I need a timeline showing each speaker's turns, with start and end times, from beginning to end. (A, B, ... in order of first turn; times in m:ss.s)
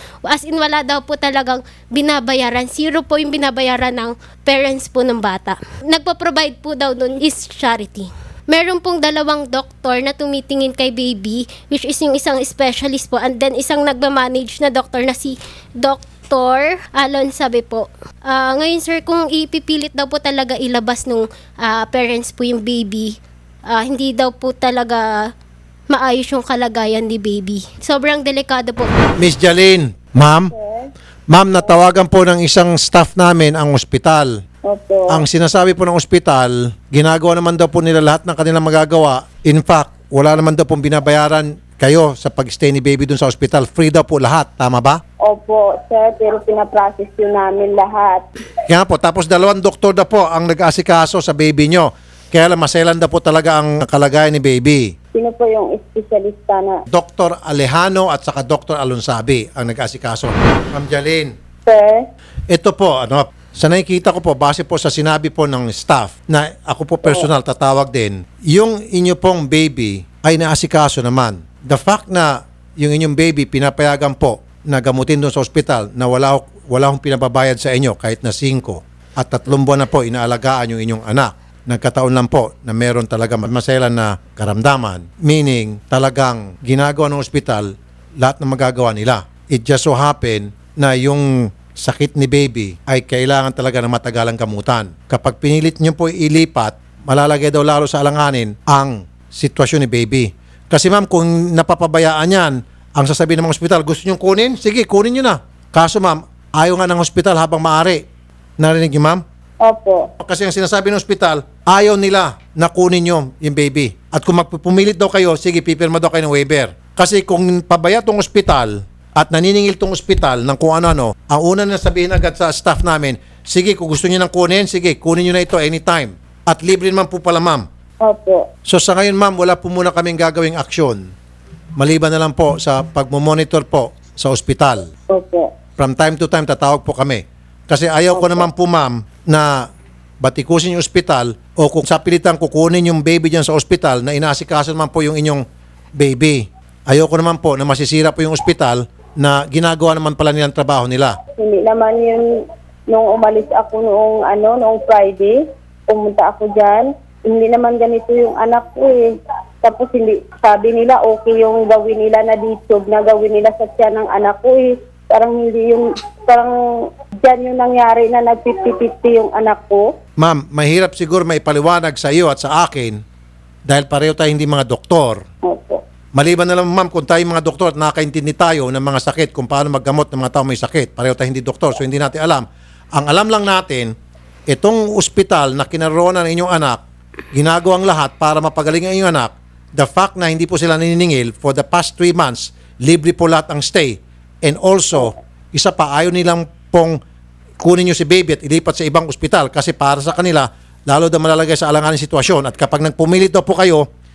0:00.2-0:23.1 A
0:23.7-0:25.3 A
0:25.9-0:28.9 A
0:29.2-0:30.5 B
0:30.5-0:30.9 C
0:31.3-0:34.3 B
0:34.7-0:35.2 C
0:35.1-0:45.0 B
0:45.2-0:48.2 C
0:48.7-0:54.9 B
0:55.1-0:56.8 C
0:56.9-1:01.3 B
1:01.6-1:02.0 C
1:02.5-1:48.0 B
1:48.6-1:49.2 B
1:49.6-1:50.1 C
1:50.2-2:07.6 B
2:08.0-2:08.4 C
2:08.7-2:11.0 B
2:11.8-2:14.9 B
2:15.1-2:15.5 C
2:15.8-2:19.6 B
2:18.1-2:18.4 C
2:20.2-2:25.4 B
2:26.0-2:31.2 B
2:31.4-2:32.2 C
2:32.9-2:39.1 C
2:39.6-2:46.5 C
2:47.2-2:49.8 C
2:50.2-2:53.0 B
2:53.7-2:55.2 B
2:55.4-2:55.8 C
2:56.2-3:03.9 B
3:04.5-3:06.8 B
3:07.3-3:17.0 B
3:17.6-3:23.8 B